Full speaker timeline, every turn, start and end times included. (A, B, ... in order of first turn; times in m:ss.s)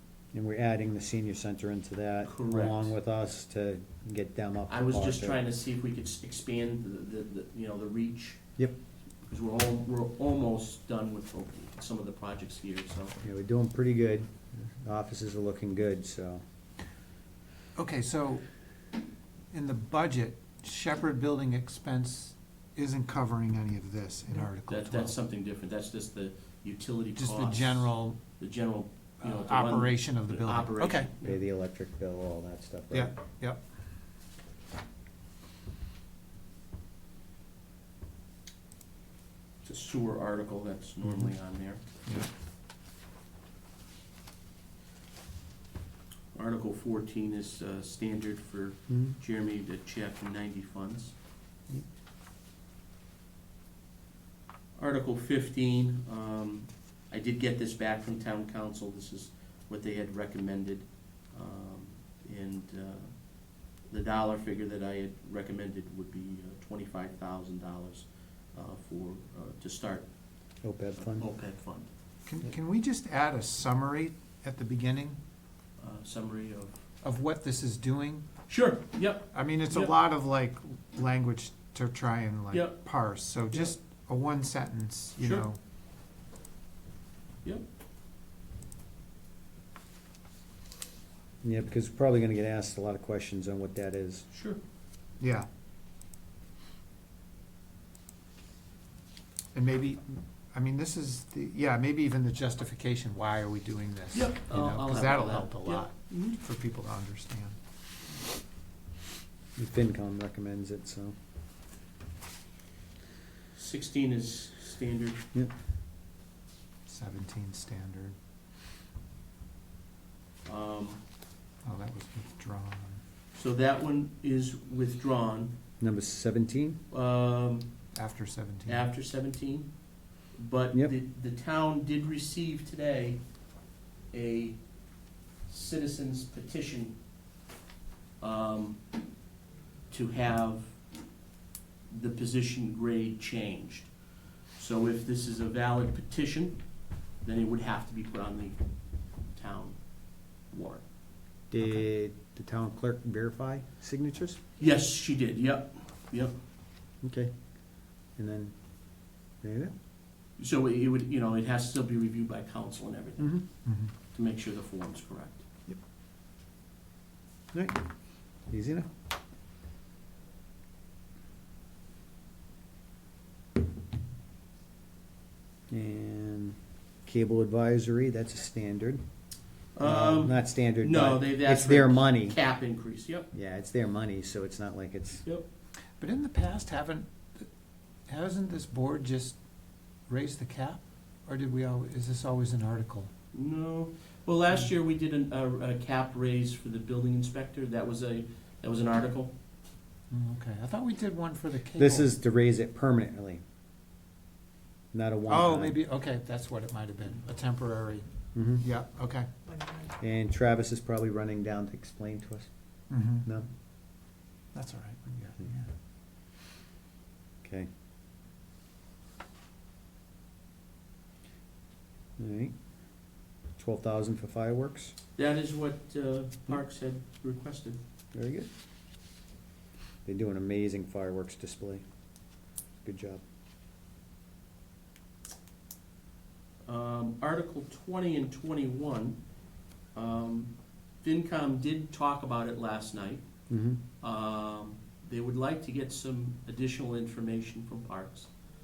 0:00.3-0:05.4 A
0:02.2-0:02.9 B
0:04.7-0:08.4 B
0:09.3-0:13.1 B
0:13.2-0:16.4 A
0:17.8-0:18.4 C
0:19.5-0:25.1 C
0:24.7-0:31.3 B
0:27.2-0:28.2 C
0:29.2-0:31.2 C
0:31.2-0:33.2 A
0:32.9-0:33.6 C
0:39.6-0:41.8 B
0:41.0-0:41.3 C
0:46.3-0:51.2 B
0:48.9-0:49.2 A
0:54.8-1:03.1 B
1:03.9-1:10.1 B
1:10.6-1:11.2 A
1:11.0-1:11.9 B
1:12.2-1:15.2 C
1:15.8-1:16.8 B
1:17.0-1:18.2 C
1:18.5-1:19.9 B
1:19.3-1:25.6 C
1:22.5-1:22.9 B
1:25.2-1:25.4 B
1:31.4-1:34.2 A
1:34.3-1:34.6 B
1:35.2-1:35.5 C
1:39.5-1:47.6 C
1:44.1-1:46.4 B
1:49.6-1:51.1 A
1:53.5-1:55.2 B
1:56.9-1:58.2 C
2:00.4-2:01.0 B
2:01.6-2:03.0 C
2:03.3-2:05.5 B
2:05.8-2:06.8 A
2:06.9-2:07.7 B
2:08.0-2:08.9 C
2:08.7-2:09.7 B
2:10.3-2:13.2 B
2:14.1-2:14.6 B
2:15.5-2:16.9 B
2:18.2-2:18.8 B
2:19.9-2:20.8 B
2:21.9-2:23.9 B
2:24.5-2:26.6 B
2:27.2-2:28.6 B
2:29.3-2:29.9 B
2:30.5-2:30.8 B
2:31.5-2:34.4 A
2:31.6-2:31.8 C
2:34.6-2:36.3 B
2:37.0-2:37.3 A
2:38.2-2:38.5 A
2:39.4-2:39.7 A
2:40.4-2:45.5 B
2:43.2-2:43.4 A
2:43.6-2:43.9 C
2:47.5-2:47.8 A
2:48.5-2:48.9 A
2:55.7-2:59.0 A
2:59.8-3:03.3 B
2:59.8-3:02.4 A
3:03.3-3:05.2 A
3:06.0-3:07.5 C
3:08.1-3:09.4 C
3:10.1-3:13.1 C
3:13.3-3:19.3 B
3:20.1-3:22.1 C
3:21.8-3:23.4 A
3:24.9-3:25.8 A
3:25.3-3:29.3 C
3:28.3-3:28.6 A
3:30.0-3:32.5 A
3:32.9-3:33.3 C
3:34.5-3:35.7 C
3:37.4-3:37.7 A
3:42.2-3:42.5 A
3:43.6-3:44.9 A
3:45.2-3:47.8 B
3:48.1-3:48.5 A
3:50.1-3:51.8 A
3:52.8-3:53.2 A
3:56.7-3:59.2 B
3:59.9-4:03.2 B
4:03.5-4:03.8 A
4:04.0-4:08.3 B